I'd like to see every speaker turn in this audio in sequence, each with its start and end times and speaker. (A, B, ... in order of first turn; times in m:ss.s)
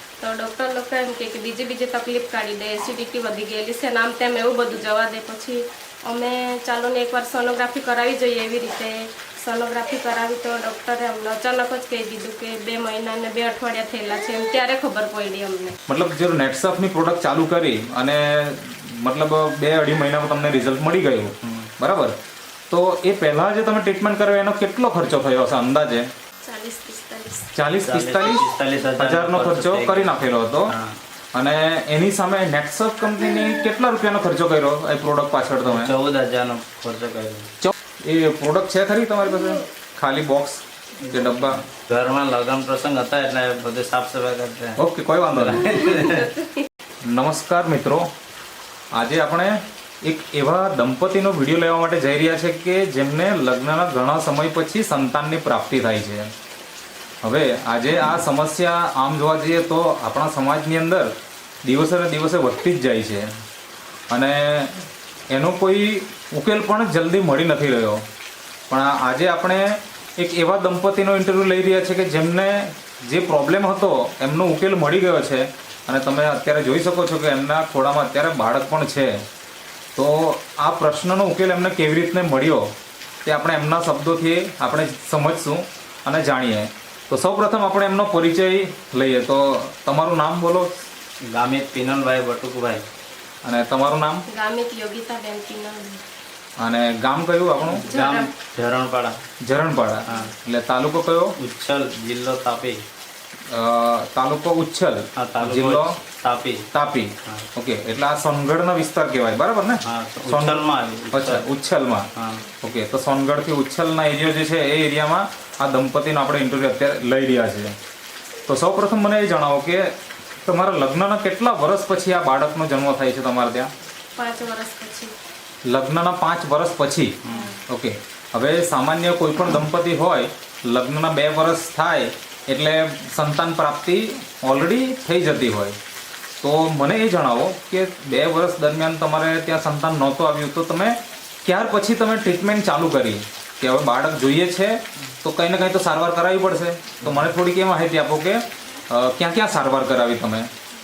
0:00.2-0:15.7 A
0:15.9-0:22.2 B
0:22.7-0:26.1 B
0:26.4-0:27.5 A
0:27.5-0:30.7 B
0:27.8-0:30.1 C
0:30.7-0:31.0 C
0:31.3-0:35.9 B
0:35.6-0:37.5 C
0:37.6-0:41.6 B
0:41.7-0:44.8 C
0:44.8-0:45.8 B
0:45.3-0:46.3 C
0:45.7-0:46.6 A
0:47.0-0:48.1 B
0:48.9-0:56.3 B
0:57.2-1:01.1 B
1:01.6-1:03.3 B
1:04.1-1:08.0 B
1:08.7-1:19.2 B
1:20.0-1:22.7 B
1:23.2-1:30.7 B
1:31.3-1:32.8 C
1:33.4-1:34.2 B
1:34.3-1:36.0 A
1:36.6-1:37.8 B
1:37.7-1:39.2 C
1:37.8-1:38.3 A
1:39.4-1:41.3 B
1:41.4-1:42.8 C
1:43.5-1:46.0 B
1:45.2-1:46.7 C
1:46.7-1:52.1 B
1:49.8-1:51.4 C
1:52.2-1:52.4 C
1:52.6-1:57.7 B
1:58.5-2:03.7 B
2:04.2-2:05.1 A
2:05.6-2:15.8 B
2:07.2-2:07.5 C
2:16.4-2:30.5 B
2:27.0-2:27.3 C